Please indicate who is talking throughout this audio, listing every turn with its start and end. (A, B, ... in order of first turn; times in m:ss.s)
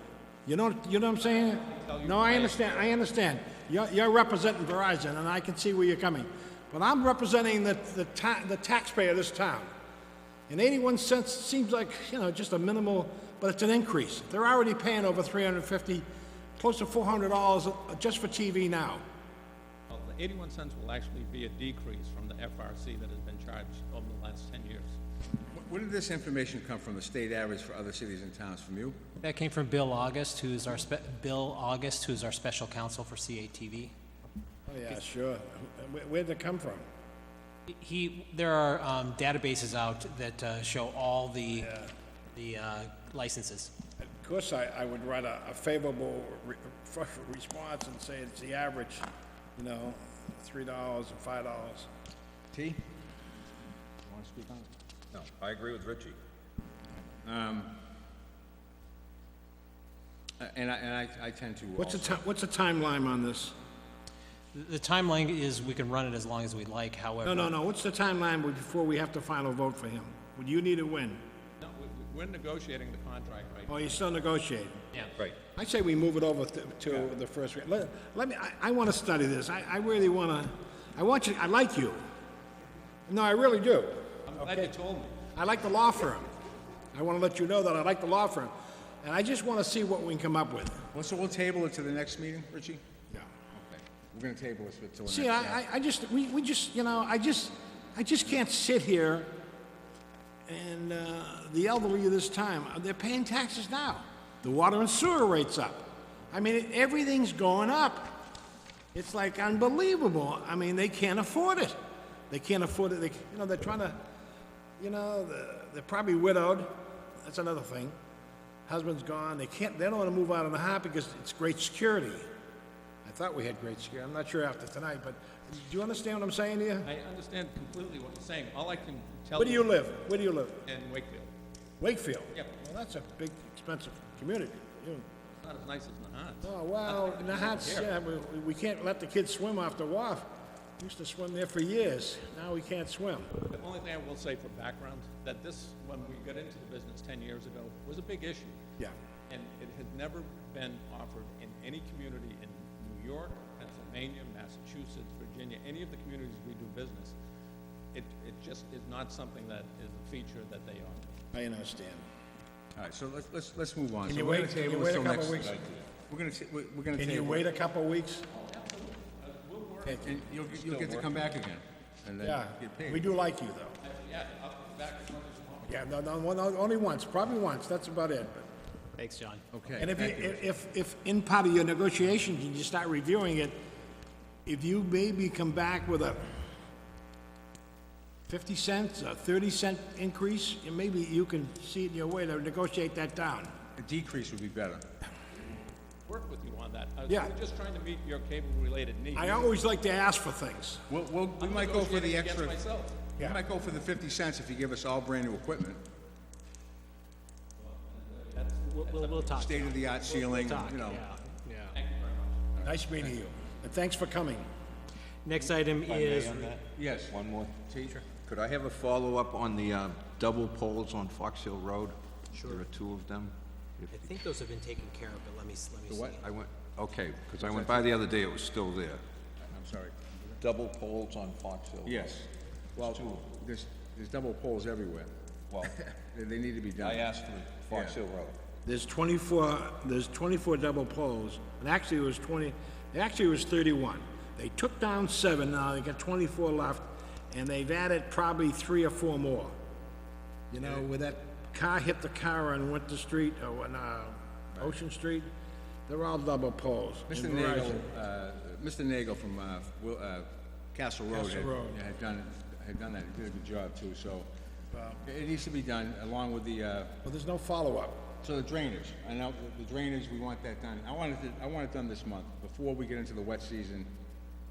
0:00.4-0:09.7 A
0:01.3-0:03.0 B
0:10.5-0:16.0 A
0:16.6-0:19.0 A
0:19.9-0:25.0 B
0:25.5-0:29.0 C
0:29.2-0:33.9 D
0:34.7-0:36.8 A
0:37.7-0:41.7 D
0:41.6-0:41.9 A
0:42.3-0:43.7 D
0:44.0-0:49.0 A
0:49.6-0:51.9 A
0:52.5-0:52.8 C
0:54.0-0:54.7 C
0:55.1-0:56.2 E
0:57.2-0:57.8 C
1:00.4-1:02.2 C
1:01.8-1:03.5 A
1:04.5-1:07.5 D
1:07.2-1:11.2 A
1:11.6-1:14.0 B
1:13.7-1:14.8 A
1:15.5-1:22.0 A
1:23.1-1:24.7 A
1:24.3-1:25.2 B
1:25.3-1:26.3 A
1:26.9-1:30.9 A
1:30.9-1:32.8 C
1:33.6-1:35.6 C
1:35.0-1:39.4 A
1:40.5-1:48.3 A
1:48.9-1:51.8 A
1:52.3-1:54.0 A
1:54.8-1:58.0 A
1:58.7-2:02.3 A
2:03.0-2:06.9 A
2:06.8-2:09.7 B
2:09.4-2:10.6 A
2:10.7-2:11.3 B
2:11.8-2:15.0 A
2:15.4-2:17.9 B
2:16.4-2:20.3 A
2:20.8-2:23.3 A
2:23.5-2:28.6 B
2:29.3-2:37.2 B
2:37.9-2:41.1 B
2:41.3-2:42.0 A
2:42.8-2:47.4 C
2:44.1-2:45.6 A
2:46.9-2:48.2 A
2:48.3-2:50.9 B
2:49.8-2:50.2 A
2:50.0-2:53.1 C
2:52.2-2:53.8 A
2:53.8-2:55.8 B
2:55.6-2:58.5 A
2:59.0-2:59.4 D
2:59.5-3:00.4 C
2:59.8-3:03.5 A
3:04.5-3:06.2 A
3:08.3-3:13.5 A
3:13.8-3:14.8 C
3:16.1-3:19.5 B
3:17.1-3:17.3 A
3:19.2-3:20.8 A
3:20.9-3:22.6 C
3:21.4-3:23.0 B
3:23.2-3:25.8 C
3:27.6-3:30.5 B
3:28.7-3:31.8 D
3:29.4-3:31.0 C
3:31.7-3:32.4 B
3:32.6-3:34.5 A
3:35.2-3:36.6 D
3:35.8-3:44.1 E
3:36.8-3:37.1 C
3:37.7-3:38.0 C
3:42.3-3:42.6 D
3:43.9-3:46.2 D
3:45.9-3:46.2 C
3:46.2-3:49.0 E
3:47.4-3:47.9 C
3:49.4-3:50.4 C
3:50.4-3:52.2 E
3:51.8-3:55.1 C
3:52.8-3:53.3 E
3:55.5-3:55.8 E
3:55.9-3:57.0 C
3:56.8-3:58.4 E
3:57.7-3:58.0 C
3:58.6-4:09.5 A
4:10.5-4:15.3 A
4:15.9-4:17.8 A
4:17.1-4:24.3 C
4:21.1-4:21.8 A
4:24.7-4:25.0 A
4:25.0-4:27.0 C
4:27.0-4:28.1 A
4:28.2-4:33.9 C